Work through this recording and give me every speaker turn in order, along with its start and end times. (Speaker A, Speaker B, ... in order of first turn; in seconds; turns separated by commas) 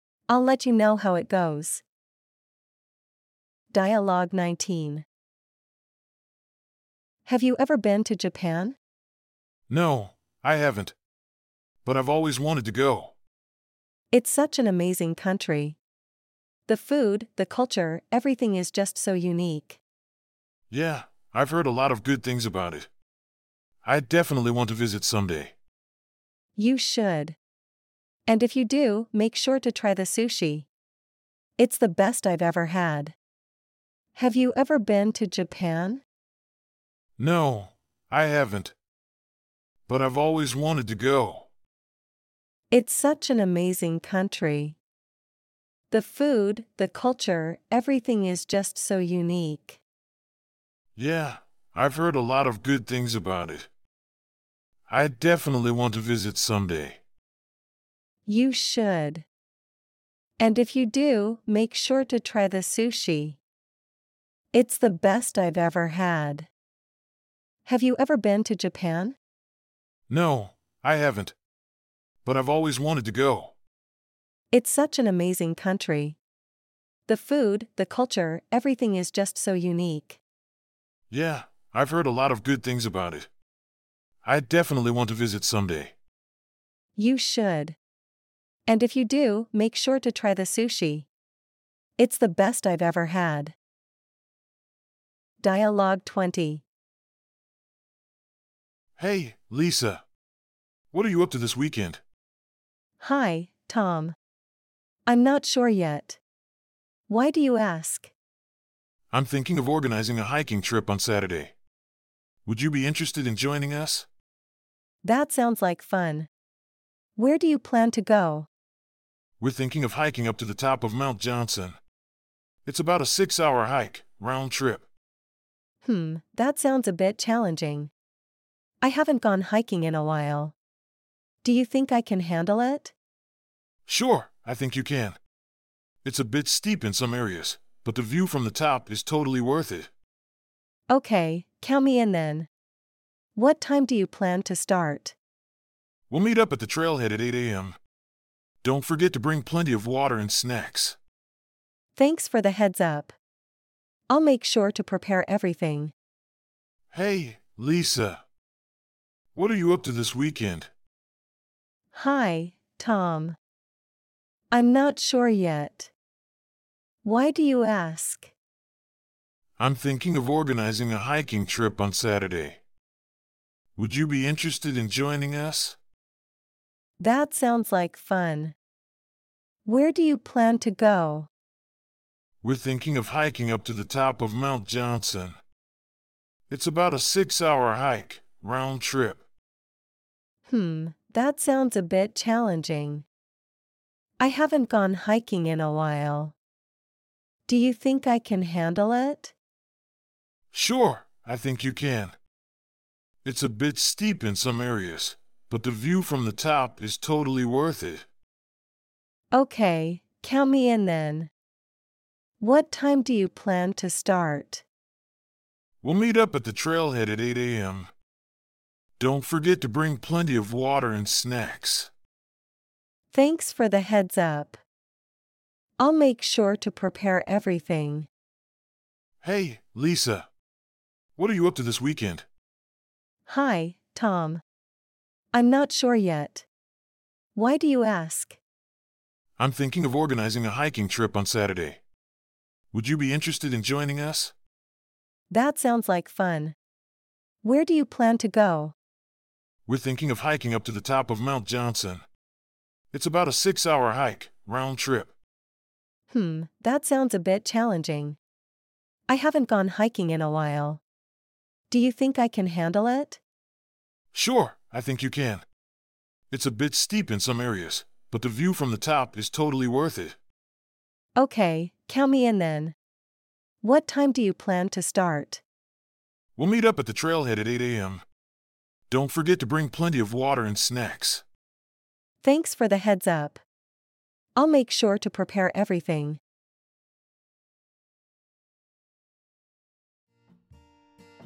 Speaker A: 0.3-1.8, Speaker A: 3.7-5.0, Speaker A: 7.3-8.8, Speaker B: 9.7-10.9, Speaker B: 11.8-13.1, Speaker A: 14.1-15.8, Speaker A: 16.7-19.8, Speaker B: 20.7-22.9, Speaker B: 23.8-25.5, Speaker A: 26.6-27.4, Speaker A: 28.3-30.7, Speaker A: 31.6-33.1, Speaker A: 34.2-36.0, Speaker B: 37.2-38.7, Speaker B: 39.9-41.5, Speaker A: 42.7-44.8, Speaker A: 45.9-49.8, Speaker B: 51.0-53.7, Speaker B: 54.9-57.0, Speaker A: 58.3-59.2, Speaker A: 60.4-63.4, Speaker A: 64.5-66.5, Speaker A: 67.7-69.2, Speaker B: 70.1-71.3, Speaker B: 72.2-73.5, Speaker A: 74.5-76.2, Speaker A: 77.1-80.2, Speaker B: 81.1-83.3, Speaker B: 84.2-85.9, Speaker A: 87.0-87.8, Speaker A: 88.7-91.1, Speaker A: 92.0-93.5, Speaker A: 95.4-96.6, Speaker B: 99.0-100.0, Speaker B: 100.9-102.0, Speaker A: 103.0-104.2, Speaker A: 105.1-106.2, Speaker A: 107.1-108.1, Speaker B: 109.1-111.5, Speaker B: 112.5-114.1, Speaker A: 115.0-116.3, Speaker A: 117.2-118.5, Speaker B: 119.4-121.8, Speaker B: 122.7-124.8, Speaker A: 125.8-127.9, Speaker A: 128.8-130.6, Speaker A: 131.4-132.9, Speaker B: 133.9-135.2, Speaker B: 136.0-139.9, Speaker A: 140.9-142.5, Speaker A: 143.3-145.2, Speaker B: 146.1-147.8, Speaker B: 148.6-151.0, Speaker A: 152.0-153.2, Speaker A: 154.1-155.9, Speaker B: 156.9-158.2, Speaker B: 159.3-160.7, Speaker A: 161.9-163.4, Speaker A: 164.5-165.9, Speaker A: 167.0-168.3, Speaker B: 169.6-172.6, Speaker B: 173.8-175.8, Speaker A: 177.0-178.6, Speaker A: 179.7-181.3, Speaker B: 182.4-185.4, Speaker B: 186.5-189.2, Speaker A: 190.5-193.1, Speaker A: 194.2-196.3, Speaker A: 197.5-199.3, Speaker B: 200.5-202.2, Speaker B: 203.2-208.1, Speaker A: 209.3-211.3, Speaker A: 212.4-214.6, Speaker B: 215.8-217.9, Speaker B: 219.0-221.9, Speaker A: 223.1-224.6, Speaker A: 225.8-228.1, Speaker B: 229.2-230.3, Speaker B: 231.2-232.2, Speaker A: 233.3-234.4, Speaker A: 235.3-236.5, Speaker A: 237.3-238.4, Speaker B: 239.4-241.8, Speaker B: 242.7-244.3, Speaker A: 245.3-246.6, Speaker A: 247.4-248.8, Speaker B: 249.7-252.0, Speaker B: 252.9-255.1, Speaker A: 256.1-258.2, Speaker A: 259.1-260.8, Speaker A: 261.7-263.2, Speaker B: 264.1-265.4, Speaker B: 266.3-270.2, Speaker A: 271.2-272.8, Speaker A: 273.6-275.4, Speaker B: 276.4-278.0, Speaker B: 278.9-281.2, Speaker A: 282.2-283.4, Speaker A: 284.4-286.2